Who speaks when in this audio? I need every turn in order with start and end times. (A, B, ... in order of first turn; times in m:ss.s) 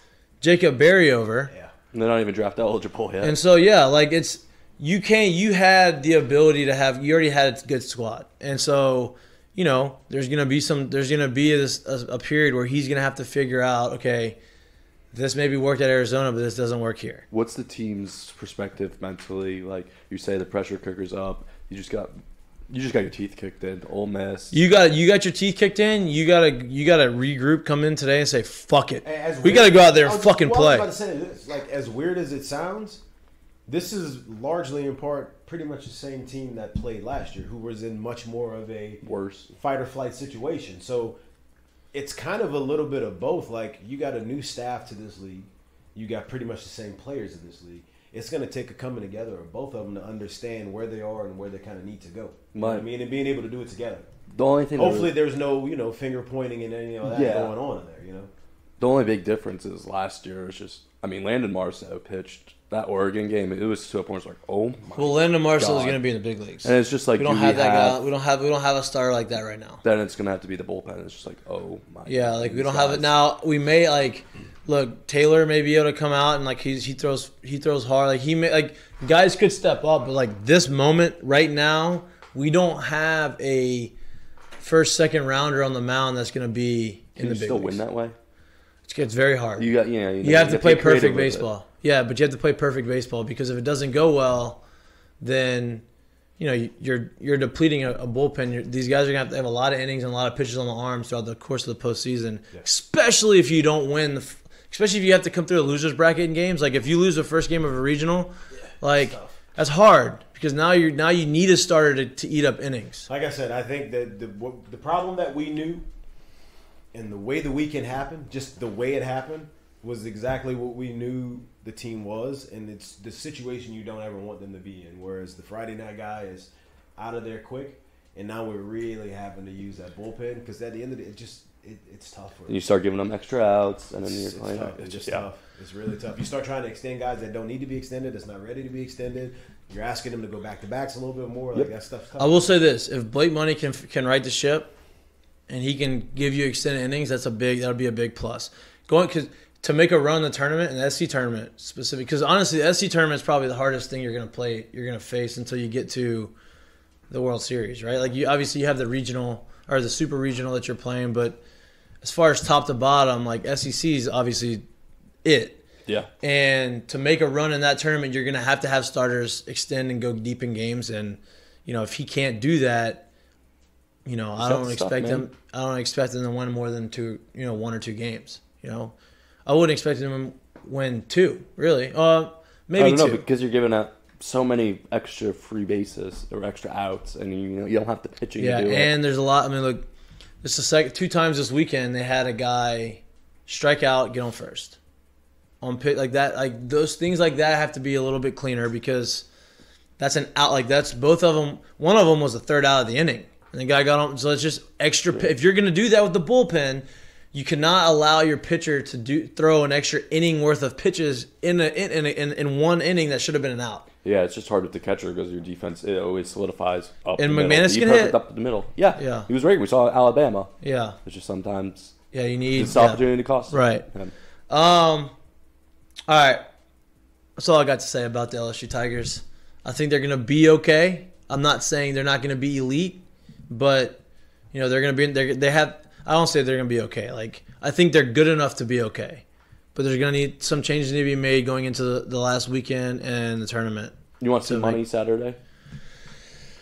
0:00.4-0:01.5 A
0:01.9-0:03.4 B
0:03.2-0:14.4 A
0:15.1-0:17.2 A
0:17.3-0:22.1 B
0:22.7-0:24.5 B
0:24.5-0:30.9 A
0:29.0-0:33.0 C
0:33.7-0:39.0 C
0:39.0-0:39.5 B
0:39.5-0:41.2 C
0:41.9-0:54.0 C
0:52.5-0:52.8 B
0:54.3-0:55.1 B
0:54.8-0:58.3 C
0:57.0-0:57.5 B
0:58.8-1:06.0 B
1:05.0-1:09.8 A
1:06.6-1:08.0 B
1:09.8-1:13.1 B
1:12.0-1:23.9 A
1:24.6-1:27.8 A
1:27.2-1:28.1 B
1:28.9-1:29.7 A
1:29.6-1:31.4 B
1:30.2-1:34.6 A
1:35.2-1:35.8 A
1:36.4-1:53.1 A
1:49.0-1:49.3 C
1:53.1-1:55.8 C
1:56.9-2:12.6 C
2:12.5-2:15.2 B
2:14.0-2:22.4 C
2:22.2-2:24.7 A
2:25.5-2:36.3 A
2:37.1-2:41.4 A
2:42.0-2:44.6 A
2:45.2-2:45.6 A
2:46.2-2:53.0 A
2:54.0-2:58.9 A
2:54.4-2:55.2 B
2:59.4-3:03.2 A
3:02.8-3:08.9 B
3:08.4-3:09.9 A
3:10.4-3:14.8 A
3:15.6-3:19.3 A
3:20.0-3:33.8 A
3:34.0-3:42.0 B
3:37.2-3:38.2 A
3:39.0-3:39.3 A
3:40.6-3:41.0 A
3:42.1-3:43.9 A
3:42.6-3:44.1 B
3:44.5-3:45.1 A
3:46.1-3:46.4 A
3:47.4-3:54.0 A
3:54.5-3:59.2 A
3:59.7-4:04.8 A
4:04.2-4:05.4 B